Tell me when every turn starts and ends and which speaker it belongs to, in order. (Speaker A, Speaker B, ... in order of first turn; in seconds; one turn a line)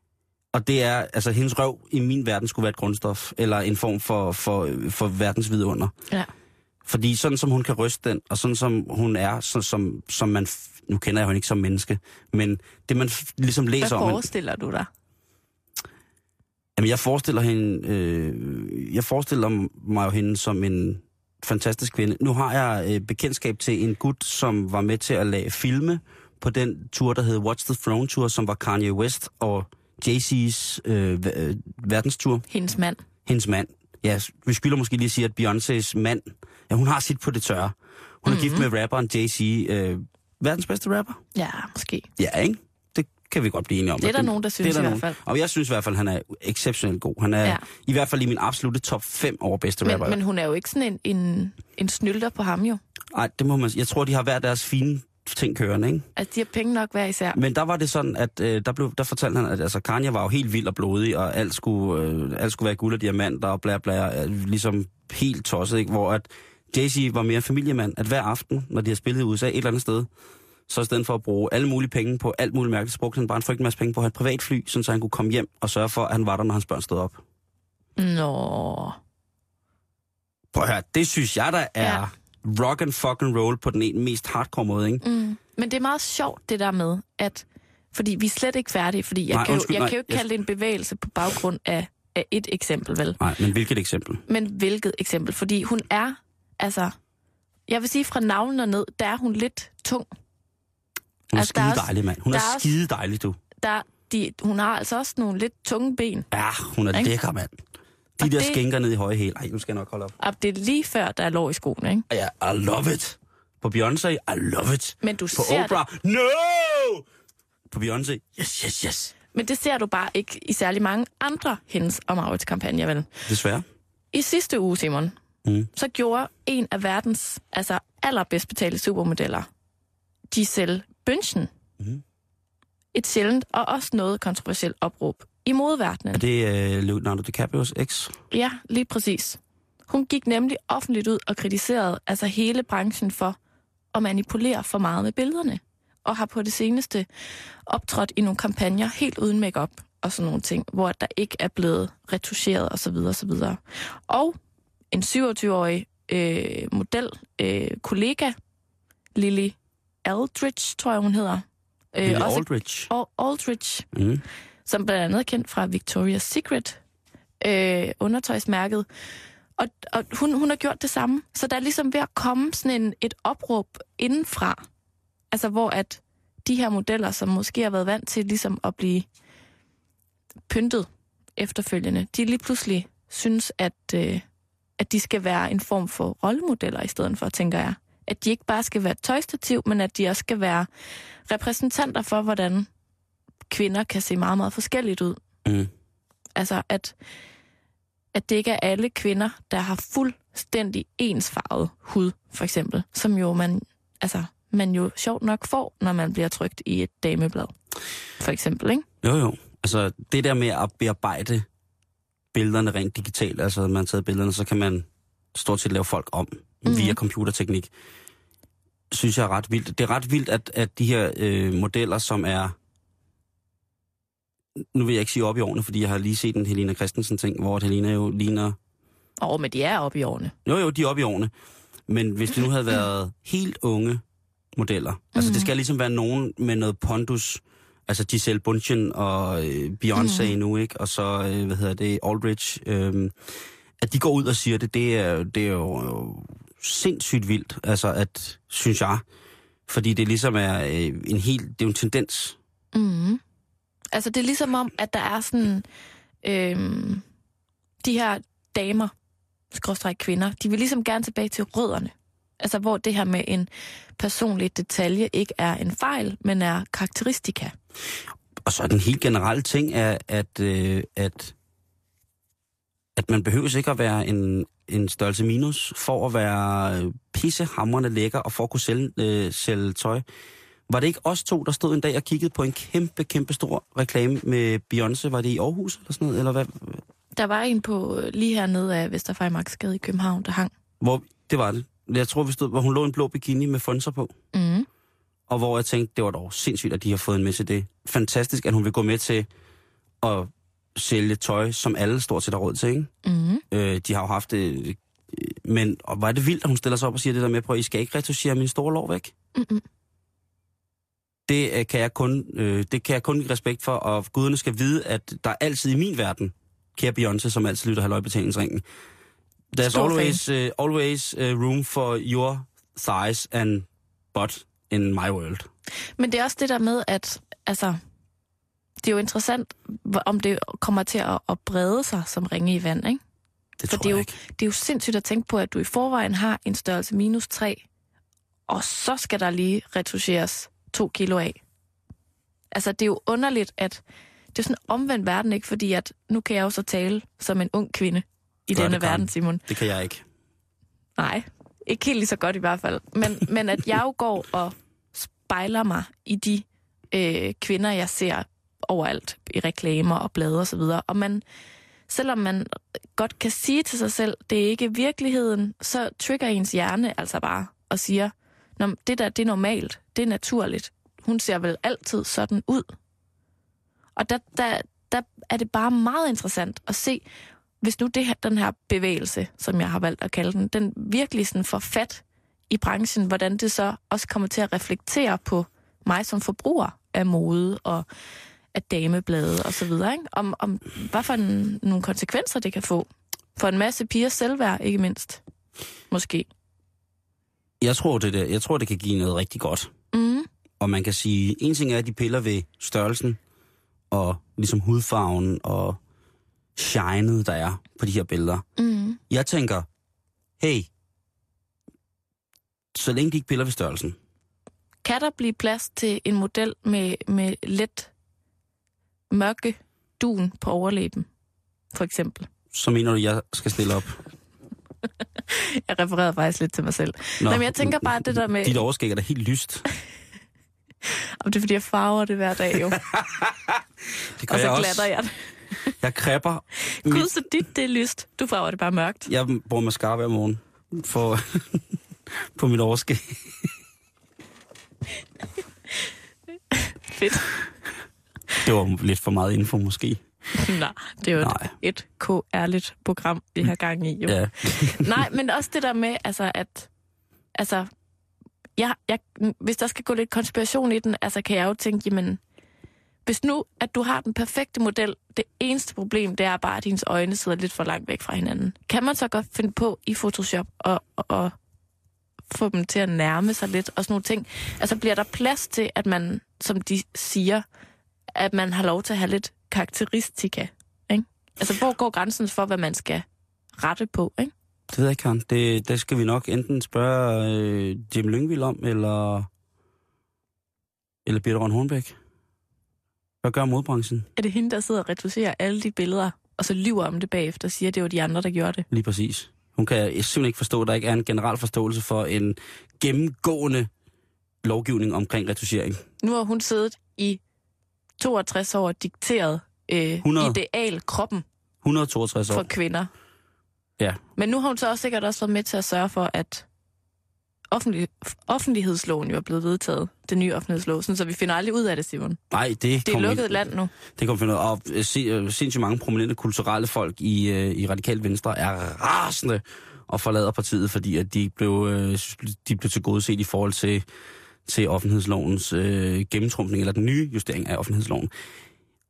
Speaker A: 0.5-5.9
Speaker A: 6.8-14.3
Speaker B: 13.8-14.9
Speaker A: 16.8-32.5
Speaker B: 32.5-33.0
Speaker A: 33.2-41.2
Speaker B: 38.2-38.7
Speaker B: 41.3-42.1
Speaker A: 42.2-50.2
Speaker B: 44.0-45.2
Speaker B: 49.8-52.8
Speaker A: 53.1-56.1
Speaker B: 56.1-57.4
Speaker A: 57.3-70.1
Speaker A: 70.7-77.2
Speaker B: 78.0-79.0
Speaker A: 80.5-85.0
Speaker B: 85.0-93.2
Speaker A: 89.3-90.2
Speaker A: 93.2-94.2
Speaker B: 94.3-96.9
Speaker B: 97.7-100.1
Speaker A: 101.3-103.4
Speaker B: 101.3-102.7
Speaker B: 103.6-106.3
Speaker A: 106.3-107.5
Speaker A: 108.2-110.1
Speaker B: 108.2-108.6
Speaker B: 110.2-112.0
Speaker A: 112.1-117.0
Speaker B: 115.0-115.8
Speaker A: 117.7-119.1
Speaker B: 119.3-123.1
Speaker A: 123.3-123.6
Speaker B: 124.1-125.1
Speaker A: 125.4-125.7
Speaker B: 125.7-129.5
Speaker B: 130.3-131.5
Speaker B: 132.9-136.2
Speaker A: 136.1-138.2
Speaker B: 138.3-143.4
Speaker B: 143.9-147.1
Speaker B: 147.7-154.3
Speaker B: 154.9-158.3
Speaker B: 159.1-163.9
Speaker A: 162.0-162.9
Speaker A: 163.9-164.2
Speaker B: 164.7-166.8
Speaker B: 167.4-168.8
Speaker B: 169.6-174.6
Speaker B: 175.3-179.1
Speaker B: 180.5-184.2
Speaker B: 184.8-190.7
Speaker B: 191.3-192.7
Speaker B: 193.5-195.2
Speaker A: 195.4-195.7
Speaker B: 196.3-196.9
Speaker B: 198.1-207.5
Speaker B: 208.2-208.8
Speaker A: 209.0-211.4
Speaker A: 212.3-217.7
Speaker B: 216.7-217.0
Speaker A: 218.9-222.5
Speaker A: 224.7-228.6
Speaker B: 229.2-230.3
Speaker A: 230.4-231.3
Speaker A: 231.9-234.0
Speaker A: 234.6-243.1
Speaker B: 235.1-235.5
Speaker B: 239.9-240.3
Speaker A: 243.8-249.0
Speaker A: 249.7-252.4
Speaker B: 252.7-253.2
Speaker B: 253.9-255.6
Speaker B: 256.2-257.0
Speaker B: 257.8-258.9
Speaker B: 259.5-267.5
Speaker A: 268.4-271.3
Speaker A: 272.9-280.0
Speaker A: 280.7-286.8
Speaker B: 287.1-290.5
Speaker A: 290.8-294.1
Speaker B: 294.3-294.7
Speaker A: 295.3-299.3
Speaker A: 300.0-302.9
Speaker B: 303.0-303.4
Speaker A: 303.5-309.1
Speaker B: 309.3-309.6
Speaker A: 311.3-318.6
Speaker A: 319.5-325.5
Speaker B: 319.6-320.2
Speaker B: 326.0-327.8
Speaker B: 328.8-333.0
Speaker A: 333.6-334.1
Speaker B: 333.7-337.6
Speaker B: 338.5-341.4
Speaker B: 342.5-343.8
Speaker B: 344.3-349.4
Speaker A: 348.5-350.0
Speaker B: 351.0-361.2
Speaker B: 361.9-372.7
Speaker B: 373.9-377.0
Speaker B: 377.6-387.9
Speaker B: 388.5-395.2
Speaker B: 395.9-396.3
Speaker A: 397.6-399.7
Speaker B: 399.9-400.3
Speaker A: 400.6-403.2
Speaker A: 403.9-405.8
Speaker A: 406.6-408.4
Speaker B: 408.6-409.0
Speaker A: 409.1-409.7
Speaker A: 410.4-410.7
Speaker A: 412.7-414.0
Speaker B: 414.8-417.9
Speaker B: 419.1-421.1
Speaker B: 421.7-422.3
Speaker A: 422.5-424.0
Speaker B: 425.3-428.6
Speaker A: 427.2-429.6
Speaker B: 431.2-432.8
Speaker A: 432.8-433.6
Speaker A: 434.2-434.9
Speaker B: 434.3-435.1
Speaker A: 435.8-437.1
Speaker B: 436.7-439.1
Speaker A: 439.1-441.6
Speaker A: 442.3-443.3
Speaker B: 446.5-447.3
Speaker A: 448.4-450.0
Speaker B: 450.3-456.7
Speaker A: 451.2-451.5
Speaker A: 454.1-454.9
Speaker B: 457.3-457.7
Speaker B: 458.6-462.2
Speaker B: 463.1-471.3
Speaker B: 472.3-477.4
Speaker B: 478.1-483.0
Speaker B: 483.6-484.3
Speaker A: 484.7-489.3
Speaker A: 491.0-491.9
Speaker A: 493.2-494.1
Speaker B: 494.2-498.6
Speaker A: 498.7-503.7
Speaker A: 504.4-505.8
Speaker B: 506.0-507.2
Speaker B: 508.0-511.2
Speaker A: 510.0-510.4
Speaker A: 511.6-512.5
Speaker B: 512.3-512.9
Speaker B: 514.2-516.5
Speaker B: 517.5-522.2
Speaker A: 522.3-533.8
Speaker B: 522.8-523.7
Speaker A: 534.5-538.1